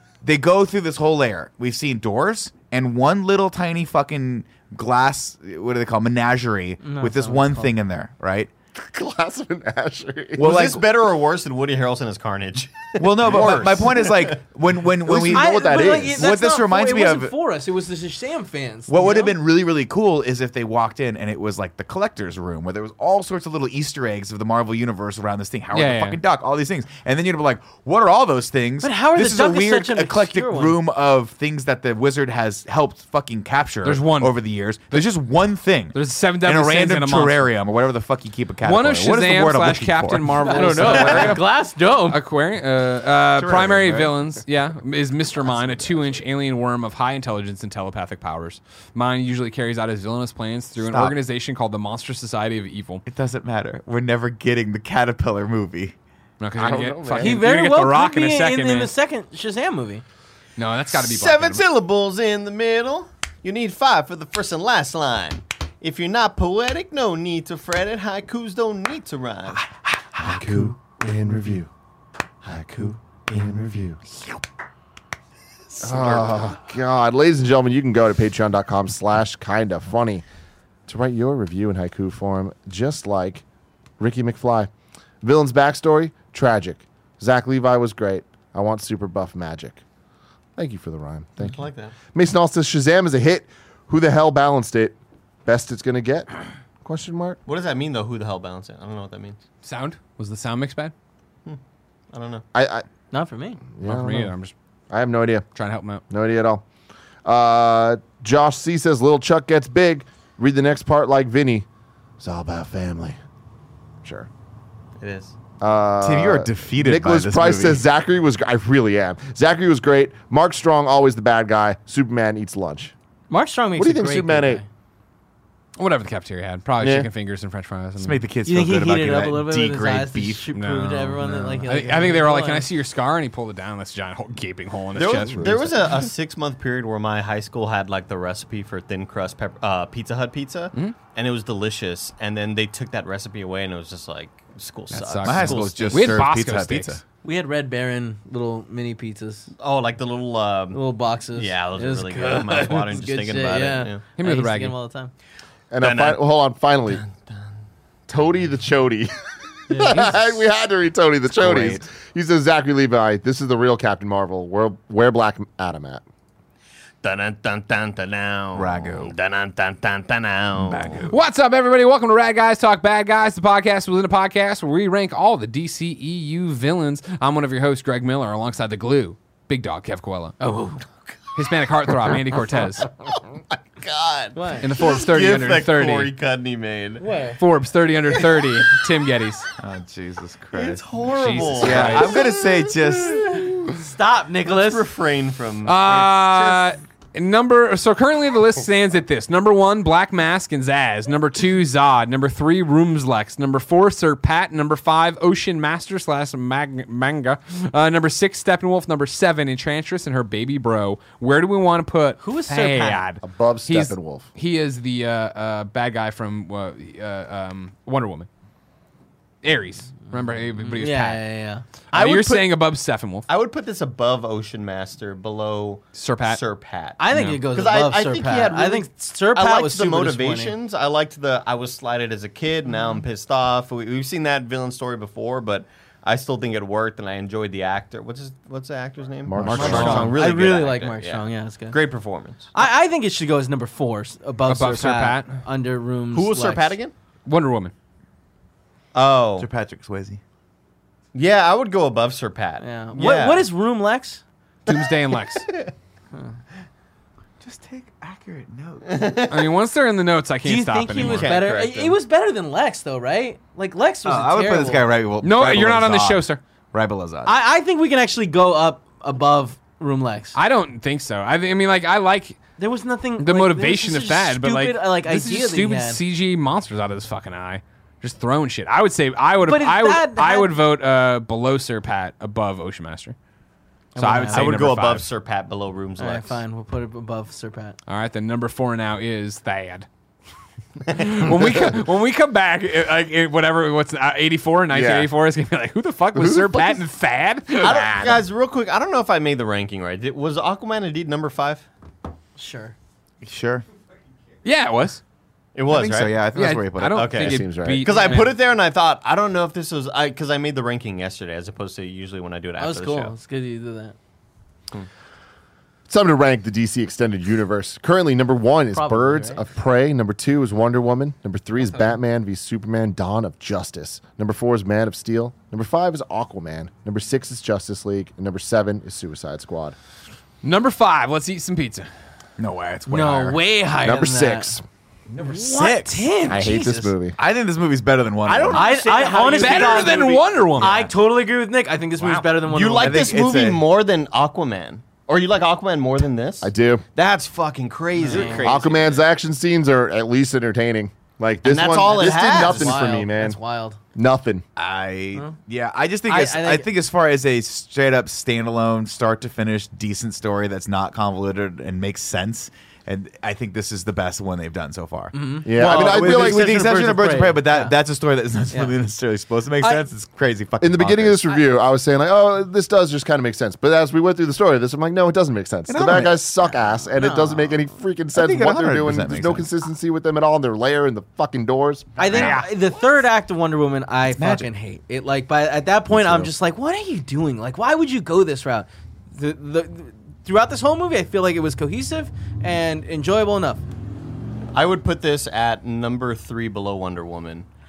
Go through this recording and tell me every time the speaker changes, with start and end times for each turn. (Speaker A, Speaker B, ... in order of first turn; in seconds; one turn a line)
Speaker A: 0.2-8.5
Speaker B: 6.8-7.7
Speaker C: 8.8-10.7
Speaker A: 10.3-10.8
Speaker D: 10.4-14.4
Speaker A: 13.0-17.3
Speaker C: 15.0-16.2
Speaker B: 15.3-19.3
Speaker A: 18.9-40.4
Speaker E: 25.7-26.2
Speaker B: 28.8-30.8
Speaker E: 33.8-35.0
Speaker E: 35.9-37.5
Speaker E: 38.6-41.5
Speaker B: 40.5-42.2
Speaker E: 42.0-53.0
Speaker C: 43.4-44.0
Speaker A: 43.7-44.1
Speaker A: 50.8-51.2
Speaker A: 53.0-55.9
Speaker E: 56.4-58.9
Speaker C: 56.5-57.4
Speaker B: 57.2-60.0
Speaker E: 60.6-61.6
Speaker D: 60.9-69.6
Speaker A: 70.1-70.7
Speaker C: 70.2-71.7
Speaker C: 72.4-74.0
Speaker C: 75.8-80.2
Speaker C: 80.9-83.4
Speaker C: 84.0-84.7
Speaker C: 85.2-89.8
Speaker C: 90.6-91.6
Speaker D: 91.4-92.0
Speaker C: 92.1-96.3
Speaker C: 96.8-97.4
Speaker D: 97.5-99.4
Speaker E: 99.6-100.9
Speaker D: 102.1-102.4
Speaker C: 102.5-102.8
Speaker B: 103.1-103.6
Speaker C: 103.8-104.3
Speaker E: 103.8-104.5
Speaker C: 104.9-105.4
Speaker E: 105.5-106.0
Speaker C: 106.1-106.6
Speaker C: 107.2-111.7
Speaker C: 112.2-113.2
Speaker C: 114.0-114.3
Speaker D: 115.0-115.3
Speaker C: 115.6-122.9
Speaker A: 116.0-117.8
Speaker B: 123.3-124.7
Speaker C: 123.8-124.6
Speaker E: 125.8-128.2
Speaker C: 126.8-127.1
Speaker A: 128.0-130.5
Speaker B: 128.4-132.7
Speaker E: 130.5-135.4
Speaker D: 134.9-146.2
Speaker C: 135.0-135.9
Speaker E: 144.9-147.0
Speaker A: 145.2-147.0
Speaker B: 147.2-149.5
Speaker D: 149.6-150.8
Speaker B: 150.7-155.1
Speaker D: 151.3-154.0
Speaker E: 154.2-154.8
Speaker C: 155.7-157.0
Speaker D: 155.8-156.2
Speaker D: 156.9-157.4
Speaker C: 158.1-159.1
Speaker C: 159.7-166.0
Speaker B: 159.7-160.2
Speaker A: 161.3-161.8
Speaker D: 167.0-171.1
Speaker A: 168.5-169.1
Speaker A: 170.7-171.1
Speaker E: 171.0-180.4
Speaker B: 180.4-180.8
Speaker E: 181.3-182.9
Speaker D: 183.8-187.1
Speaker B: 184.3-184.7
Speaker E: 184.6-186.1
Speaker B: 187.0-187.4
Speaker E: 187.4-189.5
Speaker A: 189.6-190.8
Speaker D: 190.5-192.3
Speaker E: 191.1-192.1
Speaker A: 191.6-193.5
Speaker B: 193.7-194.8
Speaker D: 194.4-196.7
Speaker E: 195.6-218.3
Speaker B: 212.2-213.0
Speaker C: 213.2-214.2
Speaker E: 219.4-221.2
Speaker B: 220.6-221.6
Speaker E: 221.9-223.2
Speaker D: 221.9-222.5
Speaker D: 223.3-242.5
Speaker E: 225.9-226.4
Speaker B: 227.0-230.6
Speaker E: 227.1-227.4
Speaker C: 239.2-240.2
Speaker E: 239.4-240.2
Speaker B: 239.6-241.8
Speaker B: 242.5-246.8
Speaker E: 244.4-245.4
Speaker D: 246.1-246.9
Speaker E: 247.2-247.7
Speaker D: 248.9-249.5
Speaker A: 249.4-250.2
Speaker D: 251.1-253.5
Speaker B: 252.6-254.2
Speaker E: 254.7-255.4
Speaker D: 254.7-254.9
Speaker D: 255.4-255.7
Speaker A: 257.4-259.1
Speaker D: 258.8-259.5
Speaker E: 259.3-261.3
Speaker B: 260.4-264.8
Speaker D: 260.9-262.0
Speaker A: 264.0-267.3
Speaker E: 265.2-266.4
Speaker B: 267.2-270.4
Speaker E: 270.3-272.4
Speaker B: 272.6-276.0
Speaker E: 273.2-283.1
Speaker B: 279.4-280.5
Speaker B: 283.9-284.6
Speaker E: 284.0-285.1
Speaker D: 284.3-286.4
Speaker B: 286.0-287.8
Speaker E: 287.9-289.9
Speaker D: 290.8-291.5
Speaker E: 290.9-297.8
Speaker C: 294.7-295.1
Speaker C: 296.1-296.8
Speaker D: 297.6-301.7
Speaker C: 297.6-298.2
Speaker B: 302.4-302.7
Speaker A: 303.2-303.6
Speaker E: 304.4-305.0
Speaker D: 305.5-306.2
Speaker A: 305.7-307.2
Speaker E: 306.3-308.3
Speaker D: 306.9-313.1
Speaker C: 307.2-308.1
Speaker B: 312.6-313.9
Speaker C: 315.9-329.7
Speaker B: 318.7-319.4
Speaker E: 330.4-331.9
Speaker A: 332.4-333.4
Speaker B: 332.9-334.6
Speaker C: 333.8-334.6
Speaker B: 335.2-336.9
Speaker A: 335.2-336.1
Speaker C: 336.3-337.2
Speaker A: 337.2-338.7
Speaker D: 338.2-340.9
Speaker B: 338.5-343.0
Speaker E: 339.4-340.8
Speaker D: 342.1-349.0
Speaker A: 342.8-343.6
Speaker C: 346.4-346.8
Speaker B: 348.0-348.5
Speaker C: 348.4-353.4
Speaker D: 351.4-352.9
Speaker B: 351.8-353.8
Speaker C: 353.9-354.4
Speaker A: 354.6-371.2
Speaker B: 356.1-356.7
Speaker B: 365.1-367.7
Speaker C: 365.4-367.1
Speaker B: 368.5-368.8
Speaker C: 370.6-382.3
Speaker A: 375.7-376.2
Speaker B: 376.9-377.6
Speaker A: 378.1-379.5
Speaker B: 382.0-393.6
Speaker E: 382.1-382.5
Speaker A: 384.1-384.5
Speaker A: 385.9-386.3
Speaker D: 394.5-397.4